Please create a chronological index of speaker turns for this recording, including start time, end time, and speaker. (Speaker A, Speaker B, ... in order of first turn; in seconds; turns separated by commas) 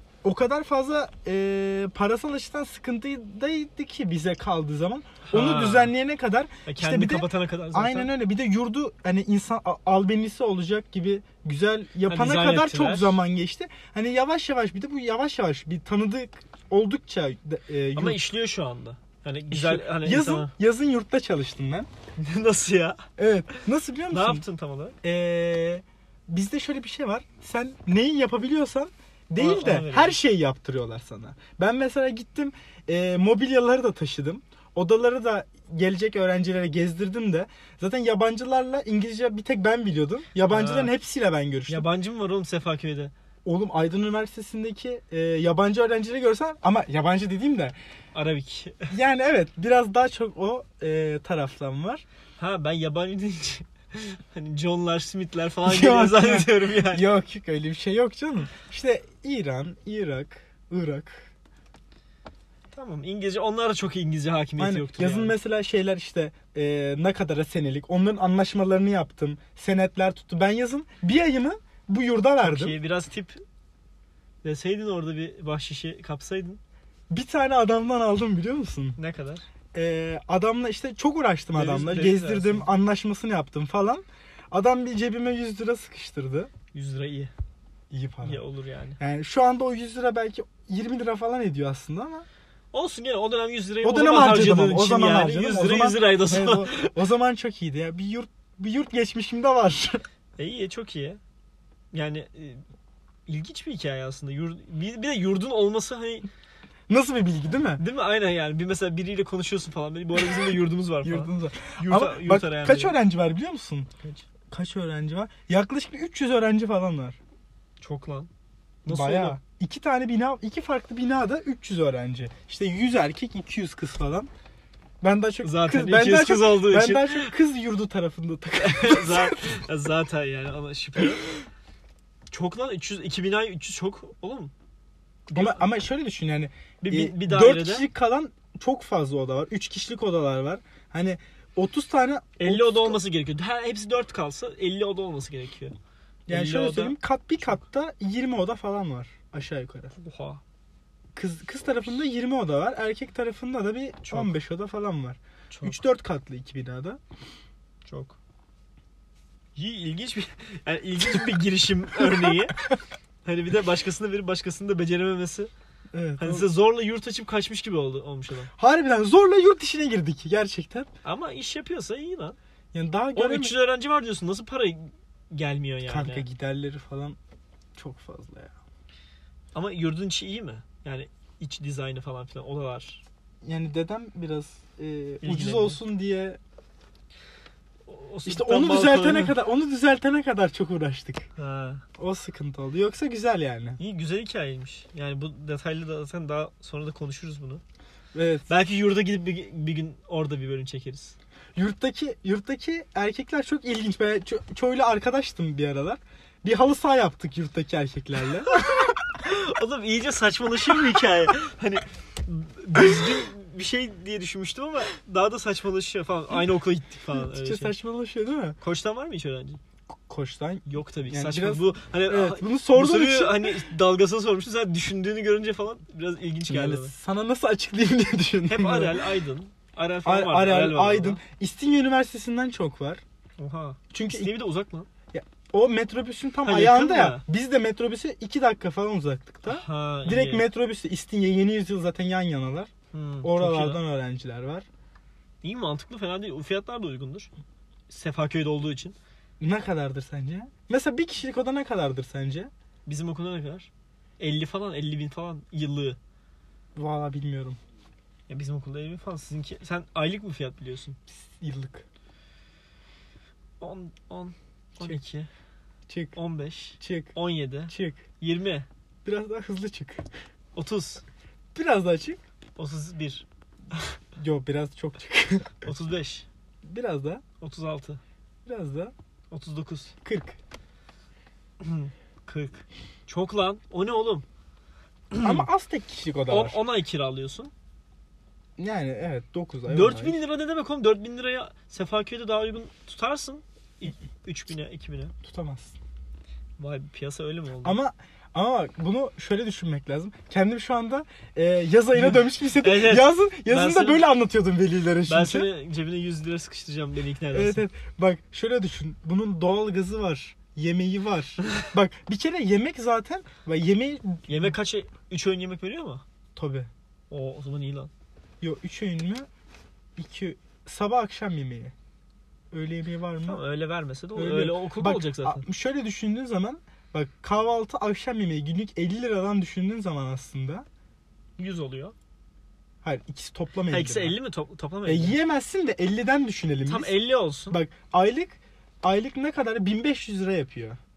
Speaker A: 0.2-18.2, Speaker B: 5.2-5.9, Speaker B: 6.7-8.1, Speaker B: 12.1-13.2, Speaker B: 17.9-20.5, Speaker A: 19.5-21.9, Speaker B: 22.2-25.0, Speaker A: 23.2-24.4, Speaker A: 25.0-41.9, Speaker B: 29.4-30.2, Speaker B: 40.5-40.9, Speaker B: 41.7-43.1, Speaker A: 43.4-47.7, Speaker B: 48.1-48.9, Speaker A: 48.9-52.0, Speaker B: 52.4-57.1, Speaker A: 55.6-61.3, Speaker B: 62.7-65.4, Speaker A: 64.6-72.7, Speaker B: 72.4-73.4, Speaker B: 74.4-76.6, Speaker A: 77.1-79.0, Speaker B: 79.0-79.4, Speaker A: 79.7-86.5, Speaker B: 81.5-82.7, Speaker B: 86.7-87.3, Speaker A: 87.9-88.4, Speaker B: 88.2-89.0, Speaker A: 89.0-92.2, Speaker B: 92.7-96.9, Speaker A: 93.8-100.0, Speaker B: 100.4-101.2, Speaker B: 101.9-102.6, Speaker B: 103.3-106.3, Speaker A: 106.9-107.8, Speaker B: 107.8-113.0, Speaker A: 111.0-113.9, Speaker B: 114.0-114.3, Speaker A: 114.5-117.2, Speaker B: 117.8-118.3, Speaker B: 118.8-119.4, Speaker A: 118.9-124.3, Speaker A: 125.0-129.6, Speaker B: 125.4-127.3, Speaker B: 128.6-131.5, Speaker B: 132.3-134.5, Speaker B: 135.3-135.7, Speaker A: 135.3-143.0, Speaker B: 136.8-137.9, Speaker B: 142.4-145.7, Speaker A: 146.3-149.9, Speaker B: 146.3-147.0, Speaker B: 149.9-150.4, Speaker A: 151.2-157.0, Speaker B: 154.0-154.3, Speaker B: 155.5-155.8, Speaker B: 157.8-158.2, Speaker B: 159.6-165.5, Speaker A: 162.0-162.4, Speaker A: 165.9-166.4, Speaker B: 166.2-168.5, Speaker A: 168.6-170.9, Speaker B: 171.0-172.4, Speaker A: 172.7-173.6, Speaker B: 173.1-176.3, Speaker A: 175.8-177.2, Speaker A: 177.8-178.6, Speaker B: 179.5-183.0, Speaker A: 183.4-186.4, Speaker B: 185.2-185.8, Speaker B: 187.9-189.4, Speaker A: 188.2-191.3, Speaker B: 191.4-191.8, Speaker A: 192.0-193.8, Speaker B: 193.8-197.6, Speaker A: 198.1-198.5, Speaker B: 198.5-201.2, Speaker A: 201.6-208.5, Speaker B: 208.5-217.7, Speaker A: 217.1-218.6, Speaker B: 218.6-219.6, Speaker A: 219.9-223.7, Speaker B: 220.7-226.9, Speaker A: 226.5-229.1, Speaker B: 228.5-231.2, Speaker A: 230.0-233.0, Speaker B: 233.4-234.9, Speaker A: 233.9-234.3, Speaker A: 235.1-242.7, Speaker B: 236.4-237.2, Speaker B: 239.4-240.5, Speaker B: 242.9-243.8, Speaker A: 243.2-244.7, Speaker B: 245.4-247.3, Speaker B: 247.9-248.9, Speaker A: 249.4-252.5, Speaker B: 252.8-256.0, Speaker A: 256.8-257.6, Speaker B: 258.3-261.0, Speaker A: 261.1-261.9, Speaker B: 263.6-265.3, Speaker A: 265.9-266.2, Speaker B: 266.1-268.7, Speaker A: 266.8-267.1, Speaker A: 267.7-268.0, Speaker A: 269.0-270.1, Speaker B: 270.5-271.0, Speaker A: 271.5-272.2, Speaker B: 272.6-273.9, Speaker A: 274.2-275.7, Speaker B: 275.6-276.3, Speaker A: 276.6-277.2, Speaker B: 277.4-278.0, Speaker A: 278.4-278.9, Speaker B: 279.3-279.9, Speaker A: 280.0-280.4, Speaker B: 281.6-284.2, Speaker B: 285.1-285.5, Speaker A: 285.2-286.6, Speaker B: 286.3-287.5, Speaker A: 288.6-290.2, Speaker B: 289.7-295.1, Speaker A: 295.2-295.8, Speaker B: 296.6-297.8, Speaker A: 297.6-305.5, Speaker B: 301.9-304.1, Speaker B: 305.1-307.6, Speaker A: 307.3-314.5, Speaker B: 314.3-316.0, Speaker A: 316.4-316.7, Speaker B: 317.1-317.9, Speaker A: 318.4-319.3, Speaker A: 320.0-321.7, Speaker A: 322.5-323.4, Speaker B: 323.2-325.4, Speaker A: 324.1-330.6, Speaker B: 331.4-331.9, Speaker A: 332.8-334.1, Speaker B: 333.7-335.2, Speaker A: 334.9-336.9, Speaker B: 336.7-337.6, Speaker A: 337.5-340.8